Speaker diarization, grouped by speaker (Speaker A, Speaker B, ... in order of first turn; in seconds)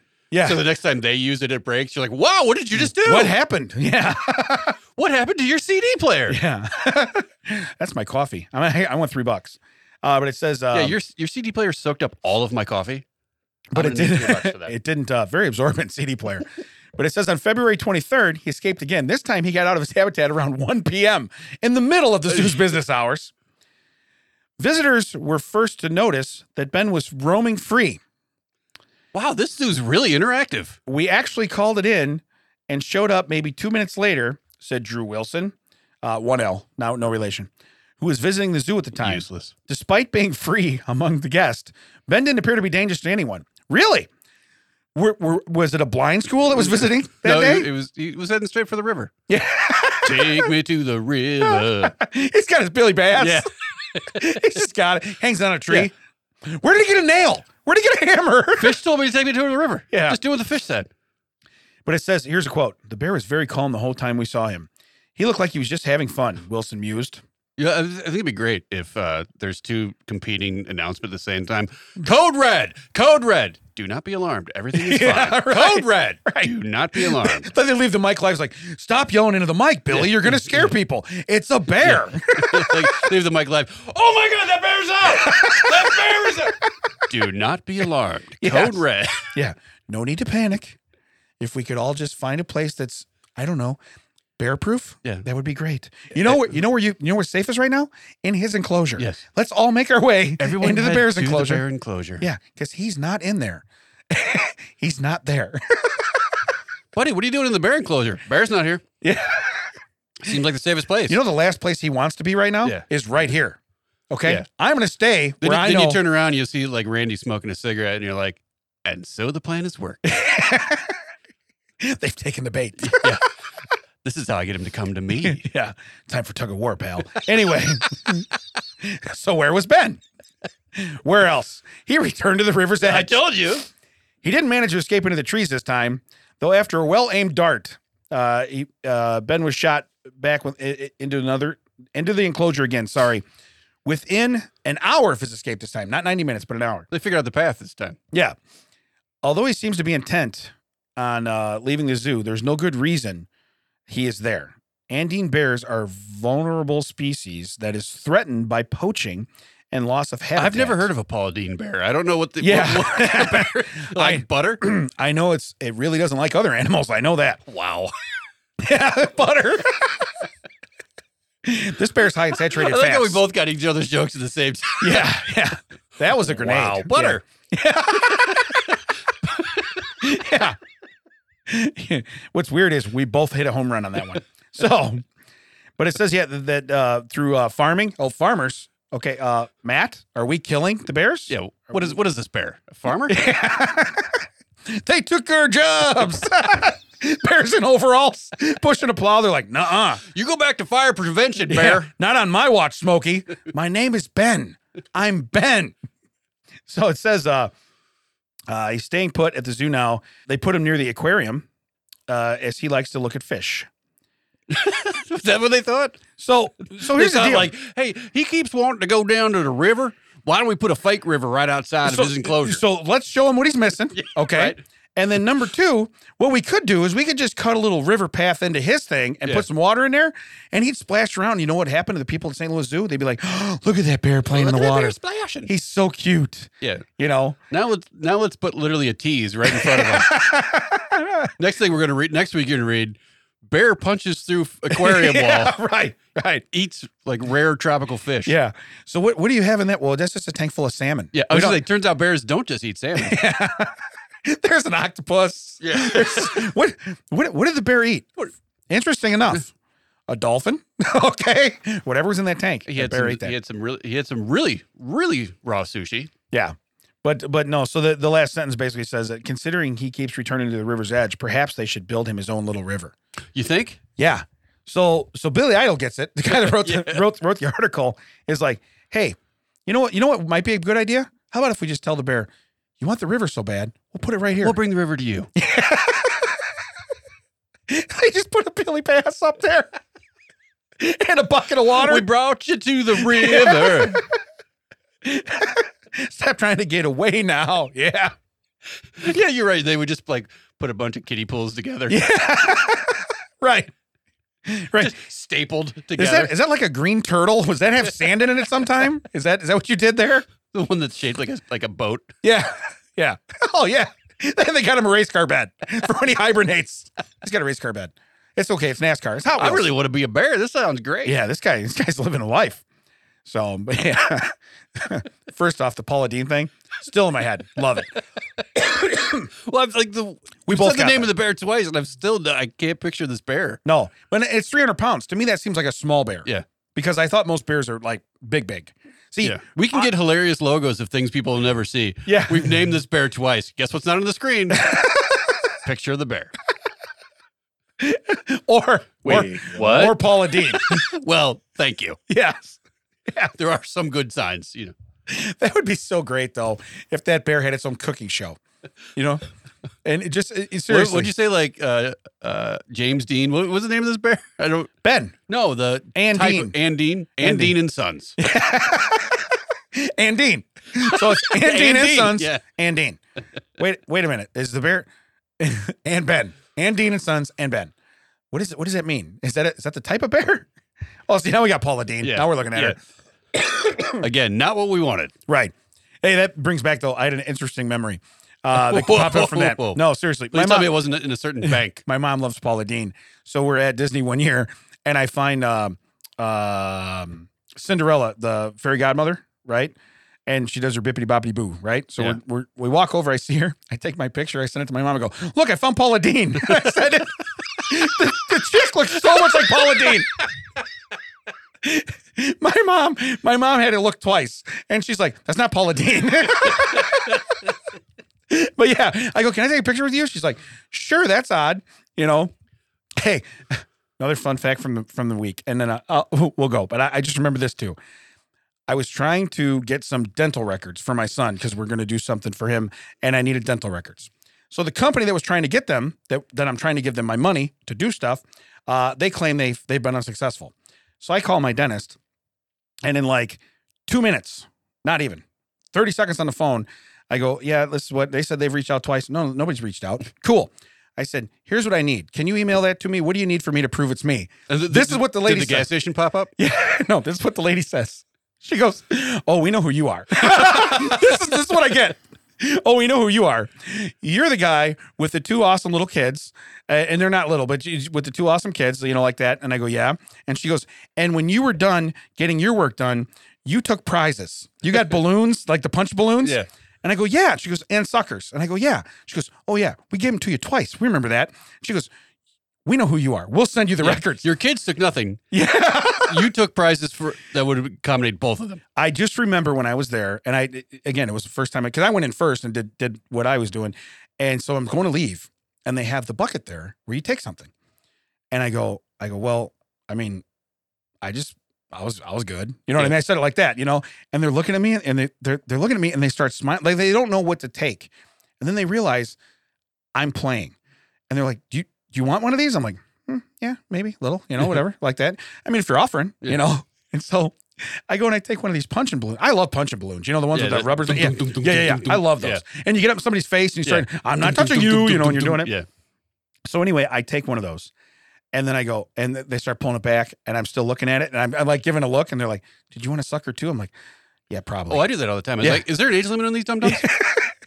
Speaker A: 0.3-0.6, 2.9-4.8, 6.3-10.9, 13.7-23.3, 24.6-28.0, 30.9-44.1, 45.0-47.7, 49.3-50.5, 51.4-58.8, 59.9-60.2, 61.9-67.2, 74.7-83.0, 85.1-86.0, 88.4-90.8, 91.4-93.8, 94.4-101.6, 102.2-106.4, 109.0-109.7, 111.1-113.6, 114.1-116.0, 120.0-121.0, 121.8-123.2, 125.2-128.3, 128.8-130.0, 130.7-133.2, 134.2-143.2, 143.8-146.9, 149.2-153.3, 153.9-160.9, 162.4-167.4, 168.6-170.1, 171.4-173.2, 174.8-178.7, 179.9-180.6, 181.5-185.1, 185.8-191.9, 193.1-200.0, 201.5-205.8, 206.7-207.5, 208.5-211.4, 212.1-213.7, 216.2-217.5, 221.8-234.9, 235.4-237.4, 239.4-241.3, 244.7-246.4, 248.3-251.6, 253.0-258.1, 258.7-259.5, 260.1-263.3, 266.3-272.9, 274.0-284.6, 285.4-286.5, 287.7-289.7, 290.8-292.1, 293.0-294.1, 295.0-298.1, 301.9-303.7, 304.4-304.9, 306.0-310.3, 312.2-319.7, 321.1-322.6, 323.2-327.9, 328.8-329.3, 330.5-331.1, 333.6-339.4, 342.1-342.5, 344.5-345.4, 347.8-350.9, 352.1-353.3, 355.1-358.4, 358.9-359.2, 359.8-361.1, 364.8-365.2, 365.9-366.5, 367.2-367.6, 368.2-373.0, 373.6-377.7, 378.3-380.5, 381.1-382.8, 383.5-384.0, 385.3-390.7, 391.4-399.7, 400.3-410.1, 411.6-417.5, 418.3-422.3, 423.0-427.8, 428.7-442.0, 442.8-455.7, 456.4-481.9, 482.6-484.2, 485.3-486.3, 488.8-497.5, 498.3-500.2, 501.0-509.2, 509.9-510.6, 511.1-525.5, 526.5-527.7, 528.3-533.7, 534.3-534.9, 536.6-537.3
Speaker B: 0.4-3.3, 5.0-6.4, 10.7-13.1, 13.7-14.7, 22.3-22.6, 29.1-30.8, 39.0-39.5, 46.7-49.1, 50.0-52.0, 53.1-54.4, 58.6-60.9, 67.6-77.5, 79.9-80.7, 81.8-89.3, 99.0-99.2, 100.4-102.2, 106.9-108.8, 110.2-111.2, 115.4-120.0, 122.8-123.3, 124.0-125.4, 132.8-133.7, 146.9-148.0, 160.4-164.6, 167.4-167.9, 172.5-175.1, 176.1-177.2, 178.3-178.8, 191.3-193.2, 200.1-201.9, 214.5-216.0, 216.7-222.6, 223.9-224.6, 234.3-235.5, 237.5-240.2, 241.4-245.5, 246.5-248.3, 251.1-253.2, 255.6-256.5, 262.7-266.1, 273.3-273.8, 276.3-277.0, 284.4-285.3, 291.8-294.0, 298.9-302.0, 304.8-306.3, 310.5-312.1, 319.4-321.2, 328.7-333.6, 339.2-344.7, 345.6-346.3, 349.0-352.0, 353.3-354.7, 360.7-364.7, 365.3-368.1, 370.7-372.4, 382.0-382.8, 383.9-385.1, 388.5-391.8, 454.5-456.3, 460.3-461.2, 483.8-485.2, 486.0-488.6, 520.3-522.4, 523.6-525.7, 534.7-537.0